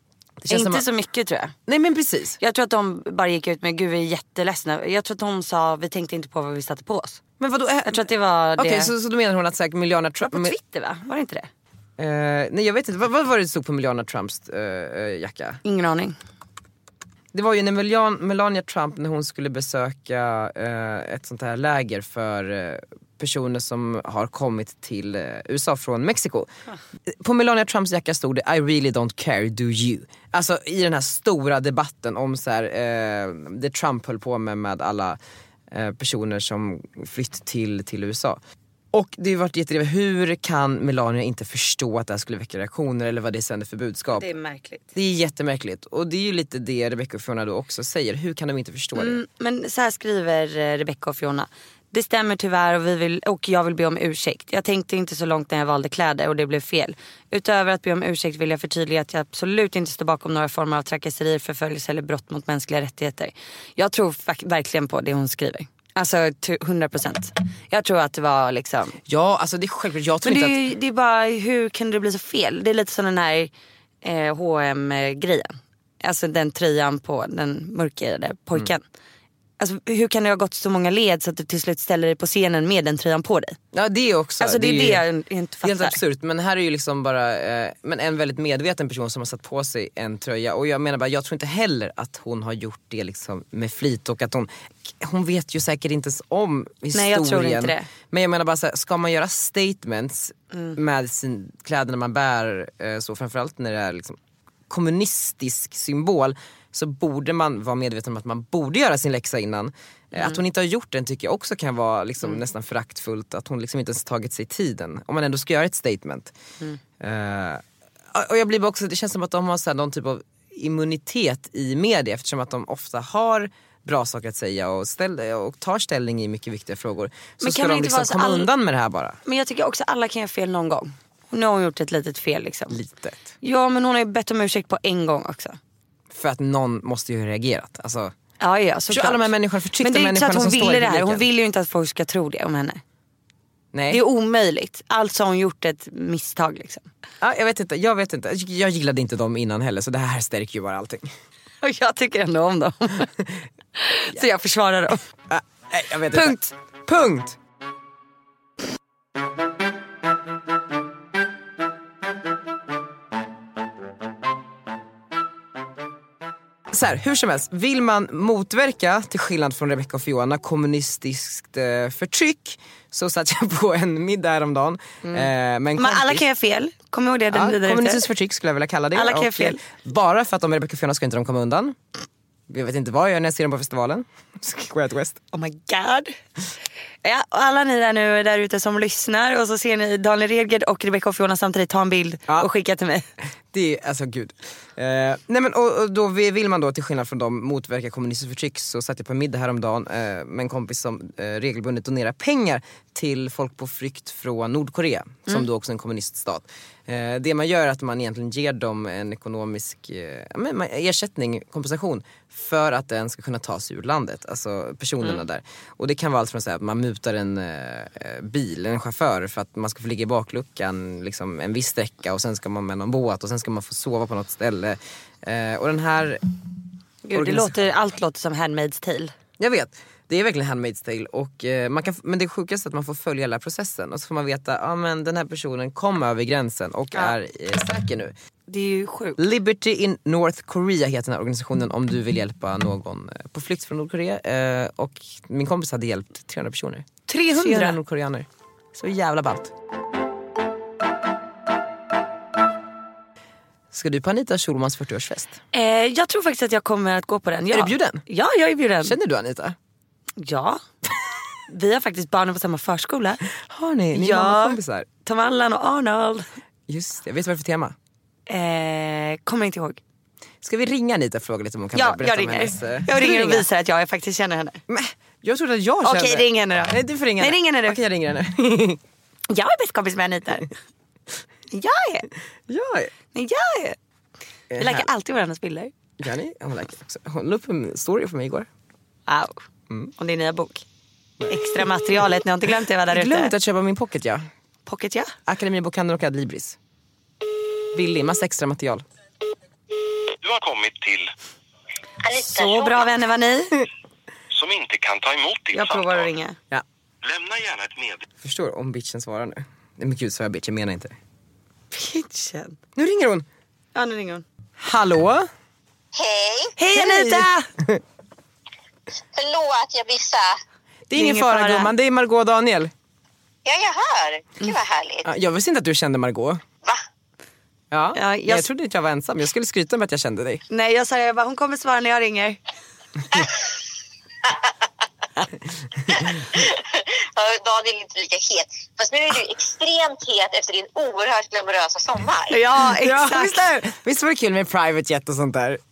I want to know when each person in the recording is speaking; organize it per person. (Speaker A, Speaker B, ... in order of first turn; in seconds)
Speaker A: 0.4-0.9, 1.7-2.4, 7.4-10.6, 12.0-15.6, 17.3-26.5, 27.1-35.2, 35.7-38.4, 38.9-44.3, 45.0-49.2, 69.1-70.6, 83.7-85.0, 85.6-104.2, 104.7-116.3, 117.0-129.2, 132.7-133.3, 136.1-138.1, 138.9-141.3, 143.7-144.0, 147.2-151.1, 155.3-157.4, 166.7-176.2, 177.3-181.8, 182.5-185.2, 193.5-226.2, 227.1-227.5, 229.4-238.1, 239.2-249.5, 253.7-255.4, 257.5-258.0, 258.8-259.6, 263.4-264.9, 266.7-267.8, 270.4-273.4, 274.7-278.8, 282.5-282.9, 284.5-284.9, 286.0-288.5, 292.9-294.2, 295.3-296.6, 297.7-298.9, 308.2-310.9, 312.8-313.3, 314.6-315.3, 316.6-317.8, 320.9-322.7, 325.1-326.4, 327.7-330.4, 342.6-345.6
Speaker B: 0.5-1.6, 2.4-7.2, 7.8-8.9, 10.2-11.5, 15.6-16.2, 44.1-45.0, 49.0-69.0, 70.2-73.5, 74.0-78.8, 79.6-83.6, 84.4-86.0, 96.9-97.9, 100.5-100.8, 110.1-110.4, 127.4-128.5, 129.2-132.8, 133.4-135.6, 138.4-142.8, 143.9-146.9, 151.6-153.1, 153.8-155.0, 156.1-156.5, 175.0-178.1, 178.9-179.6, 185.3-186.2, 187.0-193.1, 227.1-229.1, 238.5-239.2, 247.1-247.8, 255.5-259.0, 260.2-260.6, 261.5-263.2, 263.9-266.3, 268.3-269.8, 271.7-274.6, 275.8-277.8, 279.3-280.5, 281.5-282.1, 283.1-283.8, 284.6-285.7, 289.1-289.4, 290.0-290.6, 291.3-293.3, 294.7-295.1, 302.1-303.6, 305.5-306.4, 311.7-312.6, 313.8-314.2, 316.6-317.5, 320.9-321.7, 327.9-328.5, 330.5-332.4, 342.3-343.6
Speaker C: 300.2-301.1, 304.3-306.1, 307.0-308.1
Speaker D: 302.0-302.9, 315.9-316.6, 319.1-320.4, 323.4-325.1, 335.9-342.4